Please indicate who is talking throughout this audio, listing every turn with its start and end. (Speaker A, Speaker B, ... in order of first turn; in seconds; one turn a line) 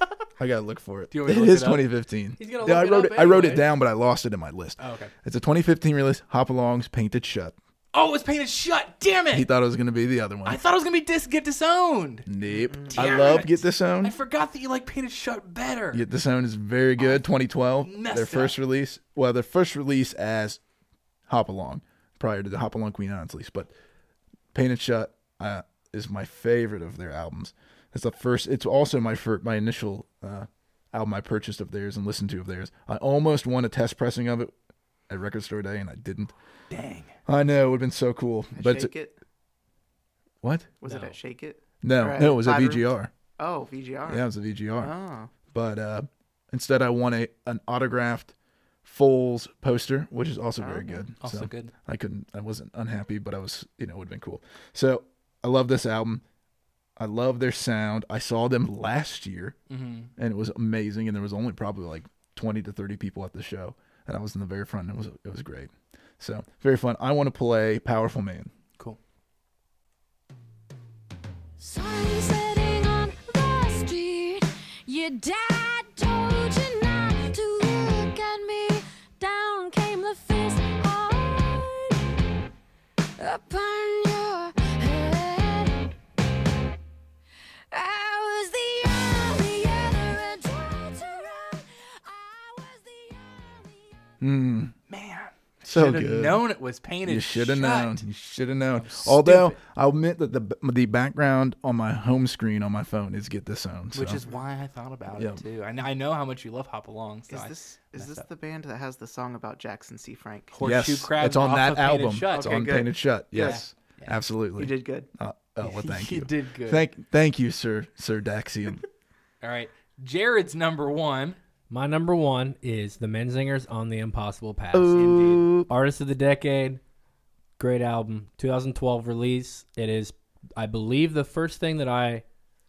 Speaker A: 0.4-7.5
Speaker B: 1.1-1.8
Speaker C: 2.4-3.6
Speaker B: 4.8-5.1
Speaker B: 7.9-9.5
Speaker A: 9.3-10.6
Speaker B: 10.4-12.3
Speaker A: 12.2-14.2
Speaker D: 12.5-13.4
Speaker B: 12.9-16.0
Speaker A: 15.9-20.6
Speaker B: 17.8-18.6
Speaker A: 21.3-23.7
Speaker A: 24.5-34.5
Speaker A: 35.1-36.3
Speaker B: 36.7-37.2
Speaker A: 37.2-38.9
Speaker D: 38.5-39.2
Speaker A: 40.4-40.7
Speaker D: 40.8-42.9
Speaker B: 40.9-41.1
Speaker A: 41.8-43.1
Speaker D: 43.4-45.3
Speaker A: 44.0-44.9
Speaker A: 45.5-48.3
Speaker A: 48.8-56.2
Speaker D: 50.6-51.1
Speaker B: 51.2-51.7
Speaker A: 57.0-59.6
Speaker B: 59.7-60.1
Speaker A: 60.2-68.5
Speaker E: 71.6-81.9
Speaker E: 83.2-85.8
Speaker E: 87.7-94.0
Speaker A: 94.2-94.7
Speaker B: 94.9-98.0
Speaker A: 95.6-96.4
Speaker A: 97.0-104.2
Speaker B: 98.7-99.6
Speaker B: 103.9-108.2
Speaker A: 105.1-105.4
Speaker D: 107.3-110.5
Speaker B: 110.5-112.7
Speaker A: 110.6-118.8
Speaker D: 112.3-113.6
Speaker B: 113.3-114.2
Speaker D: 114.6-115.1
Speaker B: 115.6-116.9
Speaker B: 119.4-121.4
Speaker C: 121.7-125.1
Speaker A: 124.7-125.7
Speaker B: 124.9-125.5
Speaker C: 125.6-126.8
Speaker C: 127.6-132.2